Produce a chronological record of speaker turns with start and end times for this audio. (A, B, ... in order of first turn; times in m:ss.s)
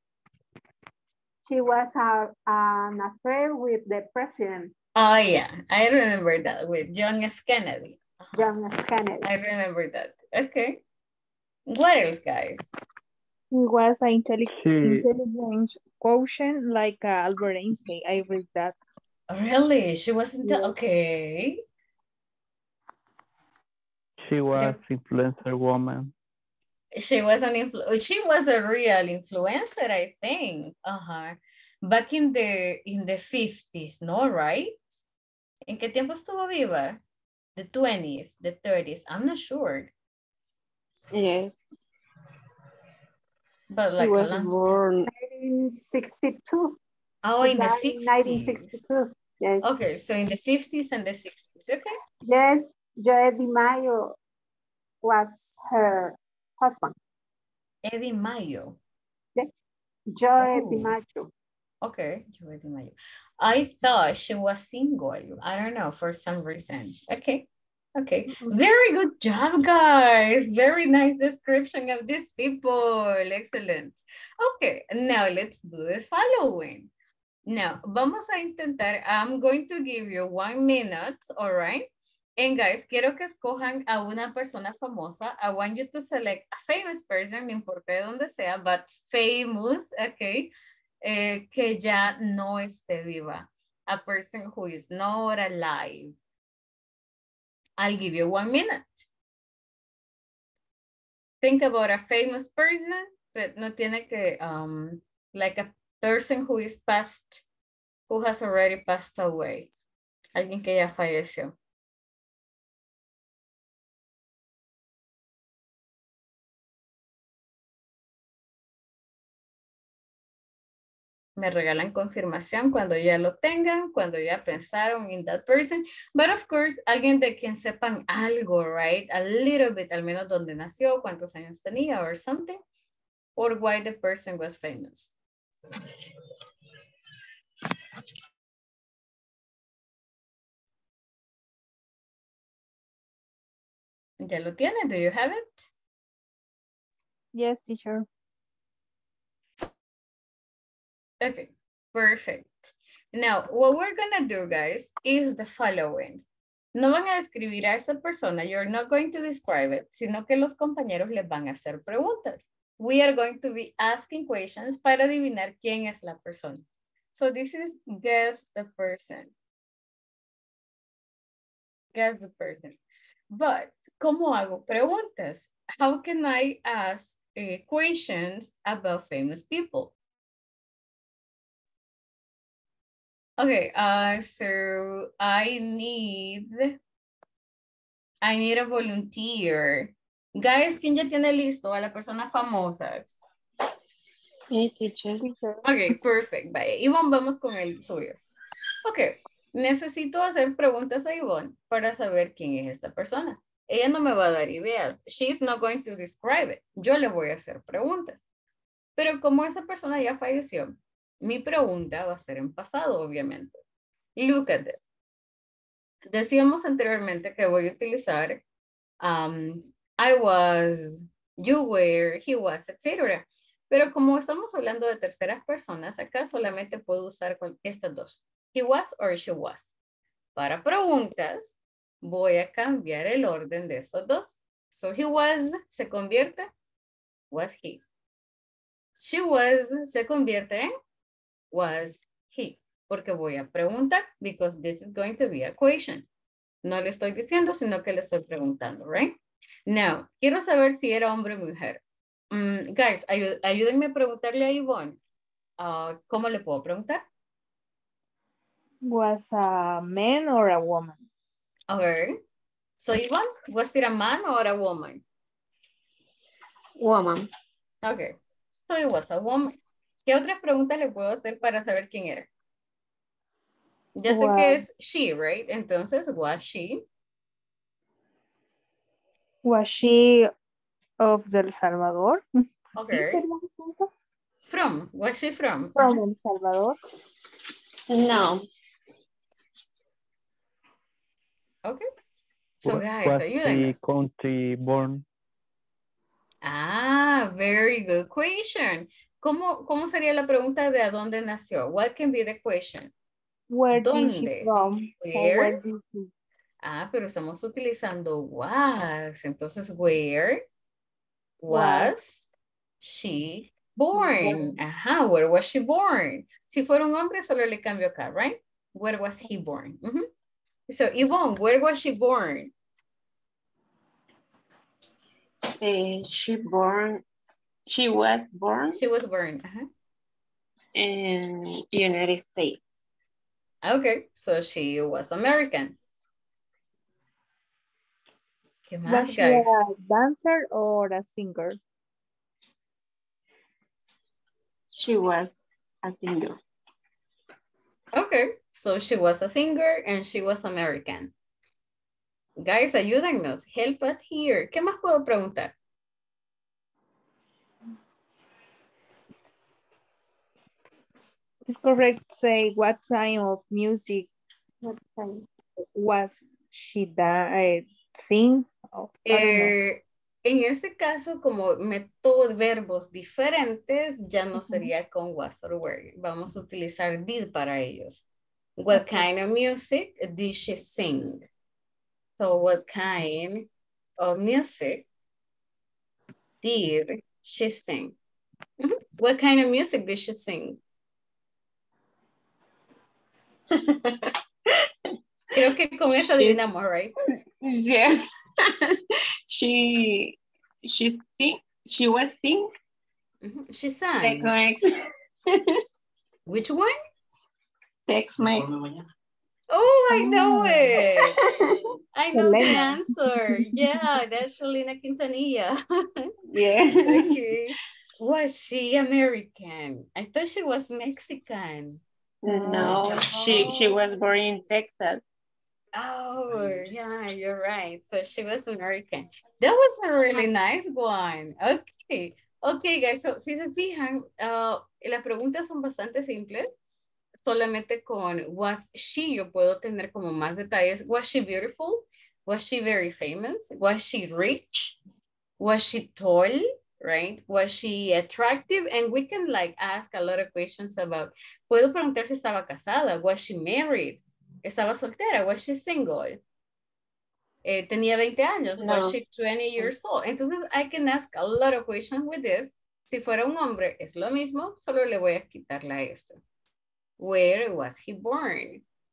0:01.4-0:04.7 A
0:04.9-0:08.4 B
0:08.3-0:09.2 A
0:09.2-0:10.8 B
0:11.7-0:12.7 B
0:13.5-0:18.8 C
0:14.5-0:15.1 D
0:19.3-0:21.6 B
0:24.2-0:26.1 D
0:27.0-0:34.8 B
0:35.7-0:37.0 B
0:37.6-0:39.9 B
0:41.2-0:41.6 E
0:43.7-0:44.6 B
0:44.5-0:44.9 E
0:45.0-0:46.8 A
0:47.2-0:48.7 B
0:47.4-0:49.7 A
0:49.6-0:51.9 B
0:52.2-0:54.2 A
0:55.0-0:56.9 A
0:57.8-0:58.8 B
0:59.4-0:59.6 A
1:00.1-1:01.3 A
1:00.4-1:00.9 B
1:01.8-1:16.9 B
1:17.5-1:30.5 B
1:31.0-1:36.1 B
1:37.8-1:39.0 B
1:41.4-1:47.4 B
1:48.1-1:49.7 B
1:50.3-1:51.6 B
2:01.4-2:12.6 B
2:13.4-2:15.1 B
2:24.2-2:25.6 B
2:27.3-2:28.0 C
2:31.2-2:36.2 B
2:36.7-2:46.6 B
2:47.1-2:49.3 B
2:51.9-2:52.8 B
2:53.3-2:59.9 B
3:03.4-3:06.7 B
3:08.2-3:13.1 B
3:14.5-3:15.2 E
3:15.2-3:15.6 C
3:15.6-3:18.2 B
3:18.8-3:28.2 B
3:29.0-3:33.6 B
3:34.2-3:34.8 B
3:36.1-3:38.4 B
3:39.0-3:49.7 B
3:50.4-3:56.5 B
3:57.3-3:57.8 B
3:59.0-4:00.7 B
4:01.5-4:06.0 B
4:06.6-4:09.2 B
4:09.7-4:11.8 B
4:12.3-4:15.0 B
4:15.6-4:17.0 B
4:18.8-4:21.0 C
4:21.7-4:22.2 B
4:22.8-4:25.0 B
4:26.8-4:27.2 E
4:27.8-4:28.1 B
4:28.7-4:32.3 B
4:33.9-4:36.8 B
4:34.1-4:34.6 C
4:39.4-4:40.3 C
4:41.0-4:43.9 C
4:42.8-4:43.2 B
4:44.5-4:46.0 B
4:45.8-4:46.8 C
4:47.9-4:48.4 E
4:52.6-4:55.0 D
4:52.6-4:53.8 B
4:56.4-5:02.9 B
5:03.5-5:06.1 C
5:03.7-5:05.6 B
5:06.6-5:10.4 B
5:11.4-5:12.3 B
5:11.5-5:12.0 C
5:12.8-5:20.0 B
5:14.0-5:14.4 C
5:20.7-5:22.5 B
5:25.6-5:27.0 E
5:27.7-5:28.8 E
5:28.7-5:29.7 B
5:30.8-5:32.6 E
5:33.6-5:35.8 B
5:38.7-5:39.5 B
5:38.8-5:41.6 C
5:44.7-5:46.4 E
5:47.9-5:51.1 B
5:52.4-5:55.5 B
6:01.5-6:04.1 C
6:04.6-6:05.2 A
6:05.8-6:09.5 C
6:09.1-6:18.0 B
6:18.6-6:21.2 B
6:22.2-6:23.5 B
6:24.0-6:24.8 B
6:26.4-6:28.0 B
6:28.6-6:30.6 B
6:35.3-6:36.9 B
6:37.4-6:38.0 E
6:39.3-6:42.5 E
6:43.2-6:44.3 B
6:44.0-6:44.6 E
6:46.3-6:46.7 B
6:47.9-6:48.5 E
6:49.5-6:51.2 B
6:50.0-6:50.6 C
6:51.9-6:56.0 B
6:52.1-6:52.8 C
6:56.3-6:56.7 E
6:56.7-7:01.8 B
7:02.2-7:05.0 E
7:02.3-7:03.5 C
7:02.4-7:03.6 B
7:05.7-7:16.5 B
7:17.2-7:24.8 B
7:25.4-7:36.2 B
7:37.4-7:46.2 B
7:38.6-7:39.0 E
7:47.0-7:48.6 B